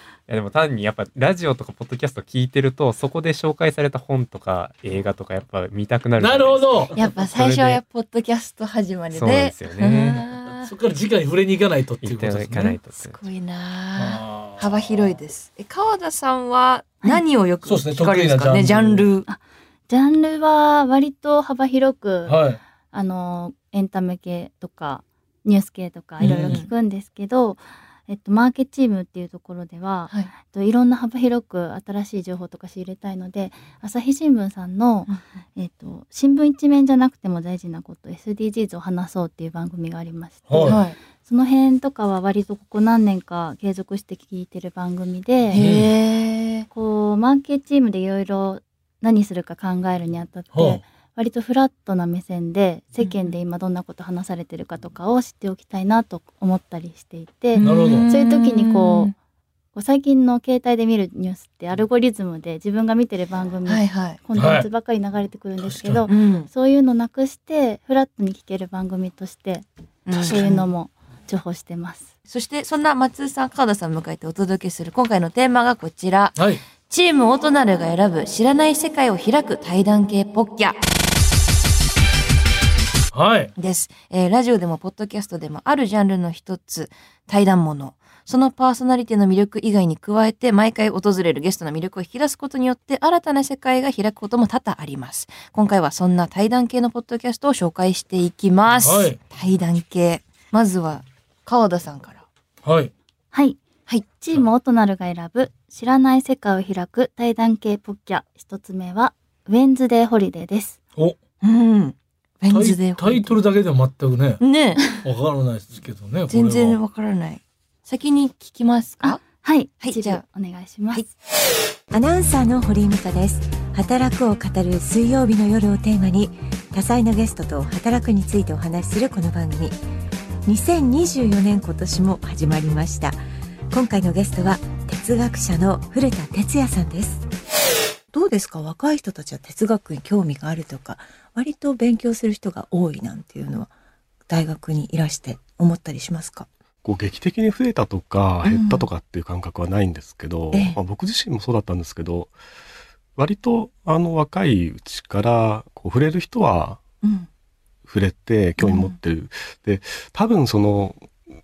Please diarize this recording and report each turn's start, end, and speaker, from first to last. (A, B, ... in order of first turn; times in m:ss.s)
0:00.3-0:07.8 A
0:06.2-0:06.9 B
0:06.9-0:10.7 C
0:09.1-0:10.2 A
0:10.5-0:12.8 B
0:12.0-0:13.2 A
0:12.6-0:19.3 C
0:14.0-0:14.8 B
0:17.6-0:19.1 B
0:19.3-0:22.4 D
0:22.3-0:22.6 B
0:22.9-0:45.6 D
0:26.2-0:26.6 B
0:26.2-0:26.7 C
0:40.5-0:40.8 B
0:40.6-0:41.0 C
0:45.5-0:46.7 C
0:45.5-0:45.9 B
0:46.7-0:59.1 D
0:50.5-0:50.8 B
0:53.0-0:53.3 C
0:57.5-0:59.1 C
0:57.6-0:58.1 B
0:59.7-1:09.6 D
1:03.7-1:04.2 C
1:04.4-1:04.7 B
1:05.6-1:06.1 B
1:06.1-1:06.5 C
1:10.1-1:10.7 C
1:10.1-1:10.4 B
1:10.3-1:12.1 D
1:12.3-1:20.8 C
1:16.4-1:16.6 B
1:23.1-1:23.5 B
1:23.6-1:42.2 C
1:38.8-1:39.2 B
1:42.6-1:42.9 B
1:43.3-1:43.6 D
1:43.9-1:44.1 C
1:44.1-1:50.8 D
1:51.4-1:53.4 C
1:52.5-1:54.4 B
1:54.4-1:54.9 C
1:54.9-1:56.8 B
1:56.3-1:59.2 C
1:59.0-2:01.1 D
1:59.8-2:00.2 C
2:01.9-2:09.7 E
2:10.5-2:13.1 E
2:13.7-2:17.1 E
2:18.1-2:23.6 E
2:24.3-2:26.4 E
2:26.8-2:32.3 F
2:33.2-2:36.8 F
2:37.9-2:41.1 F
2:38.6-2:39.0 C